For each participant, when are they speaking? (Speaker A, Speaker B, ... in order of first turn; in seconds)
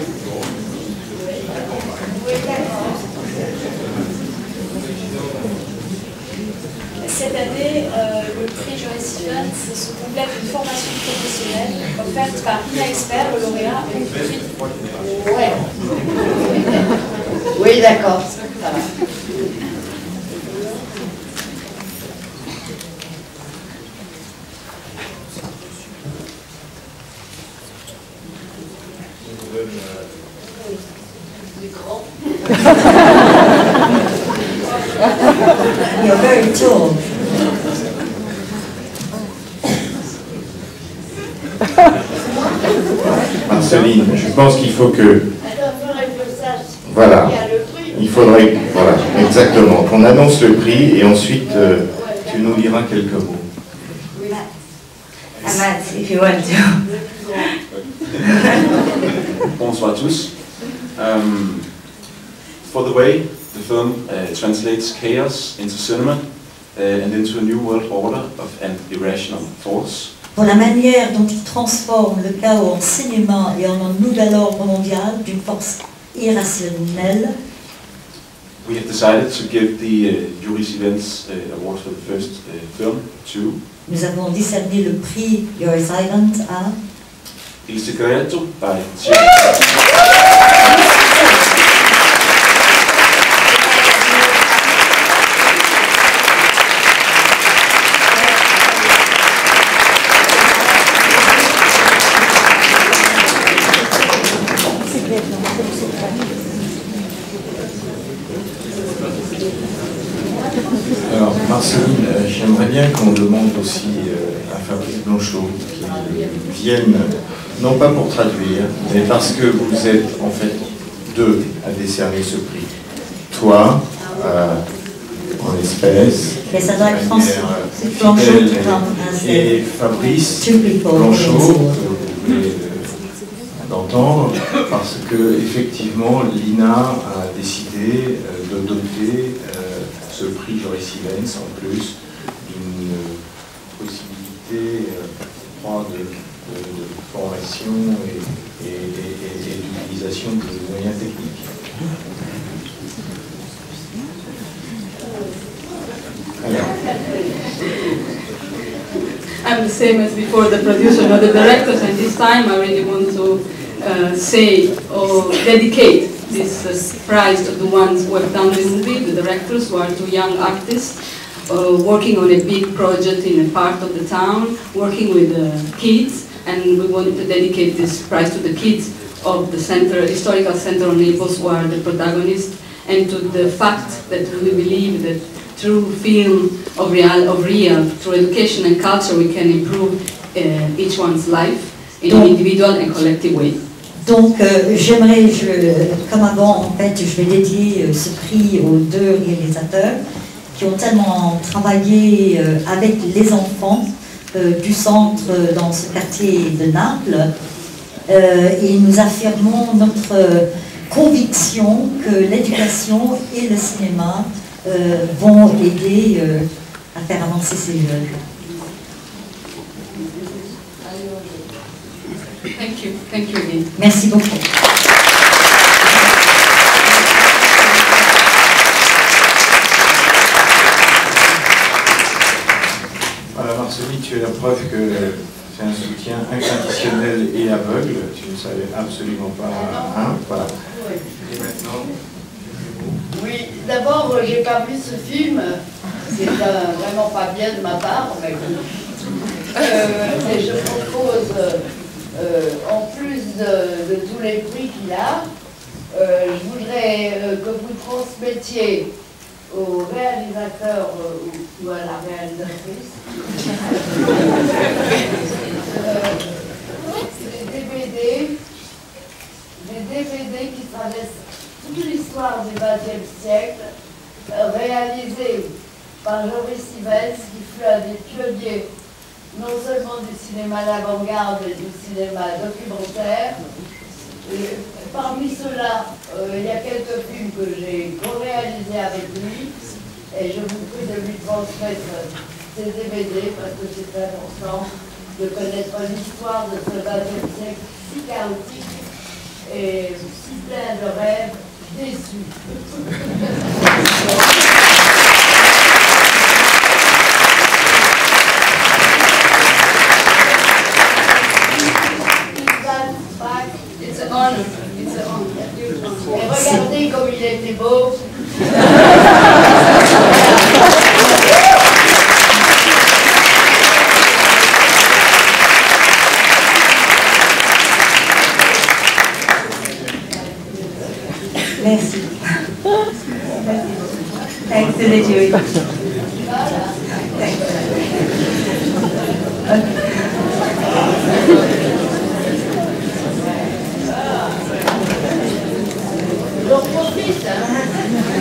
Speaker A: 7.0-14.5
Speaker B: 15.0-15.6, 17.5-18.9, 45.4-48.1, 51.9-52.2, 54.1-54.4, 239.5-241.0, 243.1-245.6, 246.1-248.6, 249.6-251.6, 252.1-255.2, 255.9-258.9, 259.5-262.9, 265.6-266.3, 267.1-268.3, 269.6-273.7, 274.3-275.5, 276.0-278.7, 279.3-283.4, 284.2-289.5, 290.1-298.8, 299.4-304.4, 312.1-313.6, 316.1-318.0, 320.1-320.6, 336.2-336.7, 346.3-347.7
Speaker C: 35.9-37.0, 70.3-77.3, 83.8-86.7, 126.5-129.5, 130.4-131.8, 192.1-192.3, 193.9-200.0, 200.5-207.3, 208.1-218.1, 223.7-224.4, 316.3-316.6
Speaker D: 43.0-45.2, 46.9-53.5, 111.0-122.7, 123.3-124.6, 125.3-133.0, 133.6-143.2, 143.7-151.5, 156.4-156.7, 233.3-240.6
Speaker E: 55.4-57.5, 58.2-58.6, 331.6-332.4, 333.4-333.8, 334.5-335.5, 336.9-338.1, 339.4-340.1
Speaker F: 57.7-58.1, 59.5-61.9, 62.6-70.1, 78.6-83.6, 87.6-89.8
Speaker G: 159.4-193.5, 222.5-223.7, 313.8-316.1